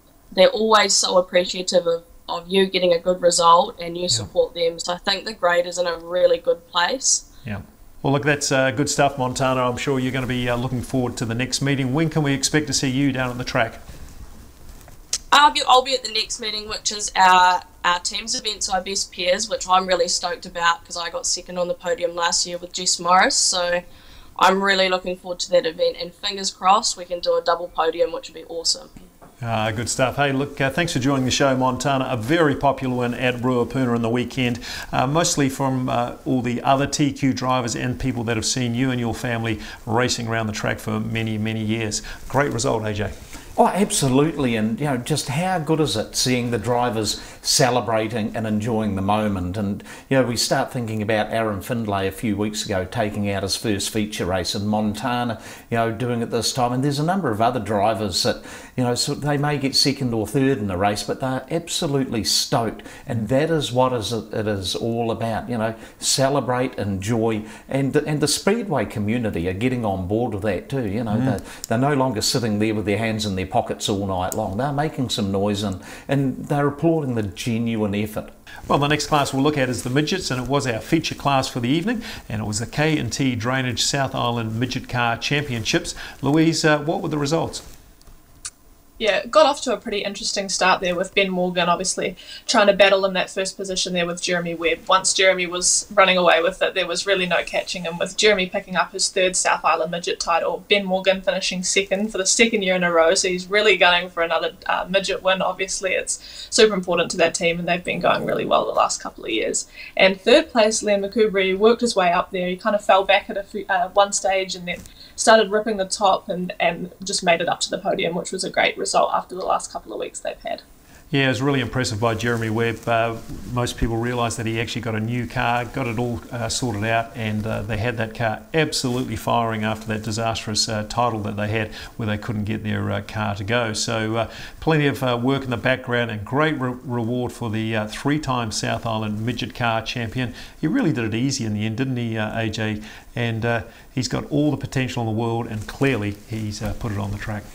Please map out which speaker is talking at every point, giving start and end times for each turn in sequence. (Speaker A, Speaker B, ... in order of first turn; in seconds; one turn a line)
Speaker A: 0.3-7.2
Speaker B: 7.4-13.8
Speaker A: 15.3-23.8
Speaker A: 24.4-28.9
Speaker B: 29.4-43.1
Speaker C: 43.6-78.3
Speaker B: 78.7-87.6
Speaker D: 89.0-120.6
Speaker B: 121.1-147.5